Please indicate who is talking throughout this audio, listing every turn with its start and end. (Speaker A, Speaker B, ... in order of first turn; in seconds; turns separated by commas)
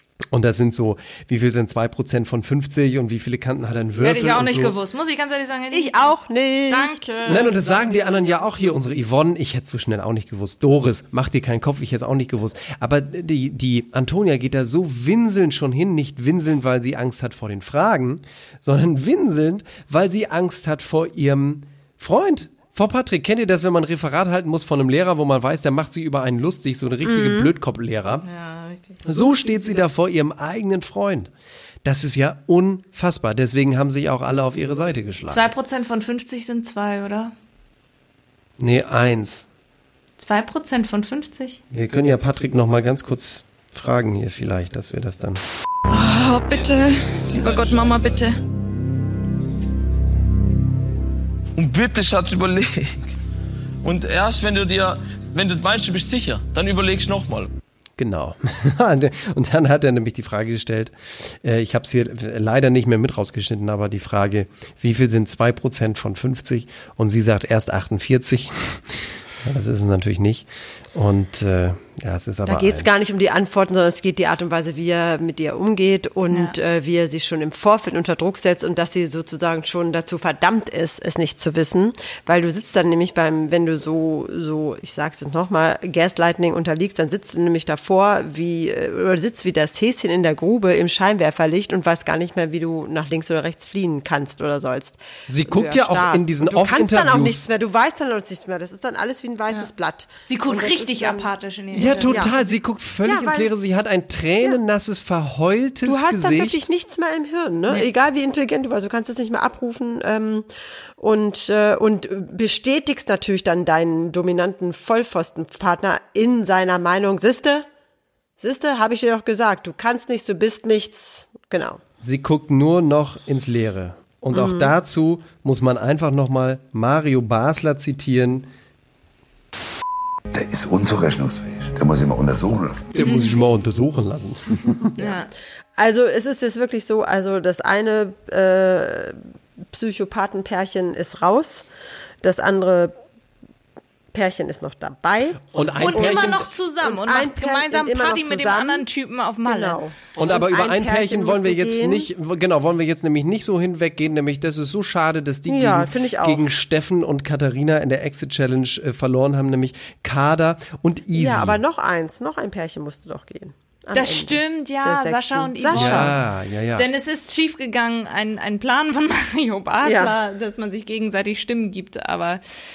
Speaker A: 0.3-4.7, Speaker B: 4.0-7.5, Speaker C: 5.7-7.5, Speaker A: 7.3-28.2, Speaker C: 27.0-27.5, Speaker B: 28.2-29.8, Speaker A: 29.0-31.3, Speaker A: 31.8-35.5, Speaker B: 35.3-37.3, Speaker A: 38.6-39.5, Speaker B: 40.2-41.6, Speaker A: 41.7-45.4, Speaker D: 45.9-48.3, Speaker E: 51.6-52.8, Speaker E: 53.8-57.5, Speaker A: 58.0-72.9, Speaker C: 72.5-101.3, Speaker B: 76.3-76.5, Speaker A: 95.3-97.4, Speaker B: 100.2-102.3, Speaker A: 101.7-106.6, Speaker C: 102.0-102.3, Speaker C: 103.0-103.5, Speaker C: 105.8-110.5, Speaker C: 111.0-117.7, Speaker C: 118.4-121.8, Speaker A: 122.0-128.5, Speaker C: 124.3-124.7, Speaker F: 130.3-132.9, Speaker A: 132.9-134.8, Speaker B: 133.0-133.3, Speaker B: 135.0-135.3, Speaker C: 135.8-139.2, Speaker C: 139.7-141.7, Speaker C: 142.2-142.9, Speaker C: 144.1-148.8, Speaker A: 145.5-146.5, Speaker B: 145.8-149.8, Speaker C: 149.4-152.1, Speaker A: 150.1-161.6, Speaker C: 155.5-156.5, Speaker C: 161.1-166.1, Speaker B: 163.9-166.2, Speaker A: 165.7-166.9, Speaker B: 166.8-172.6, Speaker C: 169.8-170.1